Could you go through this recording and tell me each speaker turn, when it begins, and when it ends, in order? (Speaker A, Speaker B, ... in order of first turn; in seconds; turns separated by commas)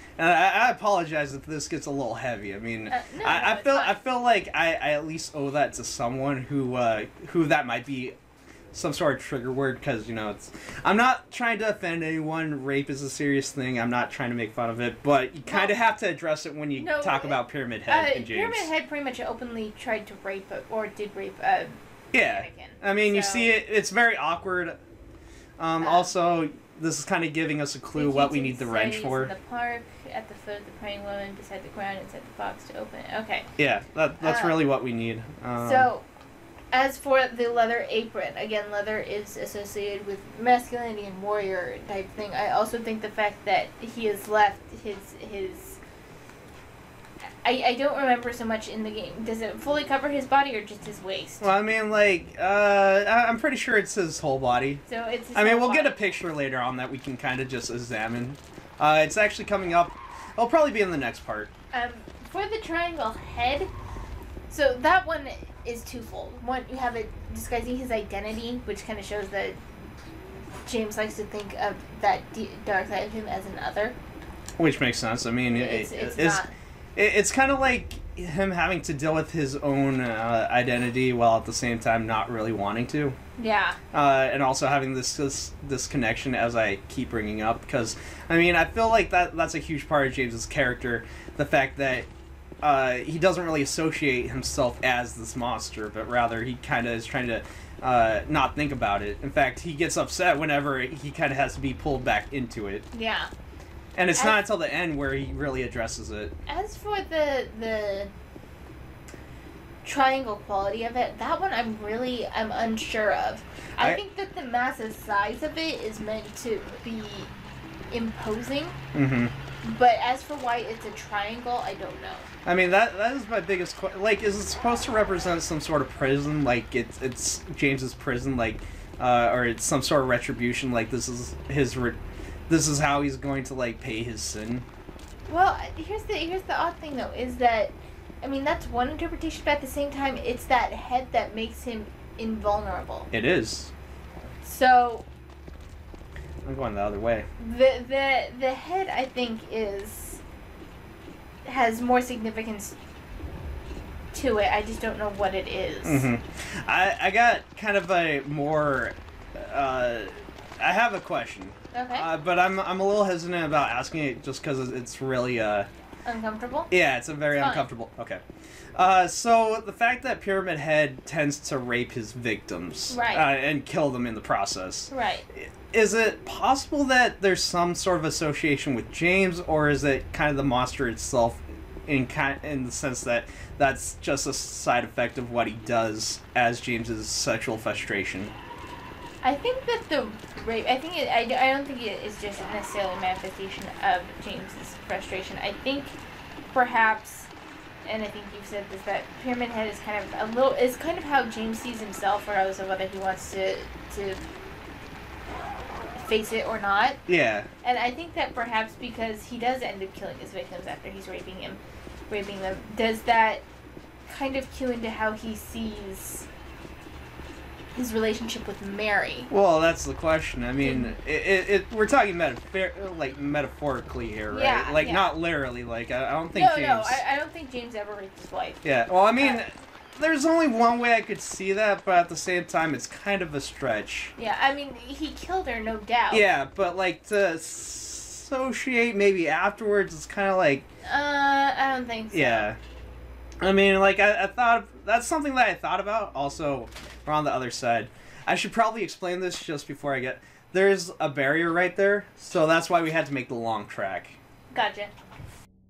Speaker A: 0.2-8.2, Speaker B: 2.9-4.0, Speaker A: 8.7-18.7, Speaker B: 15.4-15.7, Speaker B: 16.8-23.5, Speaker A: 22.1-24.8, Speaker A: 25.6-29.3, Speaker B: 25.8-26.1, Speaker B: 27.9-33.5, Speaker A: 33.6-35.9, Speaker B: 34.2-34.6, Speaker B: 35.6-36.0, Speaker B: 36.7-45.8, Speaker B: 47.4-51.5, Speaker A: 51.4-54.8, Speaker B: 54.9-56.0, Speaker A: 55.4-61.5, Speaker B: 61.7-63.7, Speaker B: 64.5-69.6, Speaker B: 70.7-74.0, Speaker A: 74.6-76.4, Speaker B: 75.5-76.5, Speaker A: 77.0-83.2, Speaker B: 83.4-83.8, Speaker A: 83.9-92.1, Speaker A: 92.6-102.8, Speaker B: 102.9-103.3, Speaker A: 104.0-106.3, Speaker B: 104.2-104.4, Speaker B: 106.5-108.1, Speaker B: 109.8-117.3, Speaker B: 117.9-118.8, Speaker A: 118.9-119.3, Speaker B: 119.6-122.3, Speaker A: 122.5-134.7, Speaker B: 135.3-143.1, Speaker A: 143.1-143.7, Speaker B: 144.4-145.1, Speaker A: 146.4-147.3, Speaker B: 147.4-150.2, Speaker B: 151.4-152.8, Speaker B: 154.1-156.1, Speaker A: 155.8-165.7, Speaker B: 161.7-162.1, Speaker B: 166.1-166.7, Speaker A: 166.7-168.2, Speaker B: 167.3-167.7, Speaker A: 168.8-188.3, Speaker B: 172.9-173.3, Speaker B: 174.9-175.3, Speaker B: 189.2-196.0, Speaker B: 196.5-197.3, Speaker B: 197.8-204.2, Speaker B: 205.9-207.0, Speaker A: 207.1-207.5, Speaker B: 207.6-213.4, Speaker B: 214.1-216.3, Speaker B: 217.7-219.3, Speaker A: 219.3-227.0, Speaker B: 220.6-220.9, Speaker B: 224.3-225.2, Speaker B: 226.3-229.4, Speaker A: 228.6-234.2, Speaker B: 234.2-236.3, Speaker A: 236.1-240.7, Speaker B: 240.8-242.5, Speaker A: 242.1-242.6, Speaker A: 243.4-254.2, Speaker B: 254.5-254.9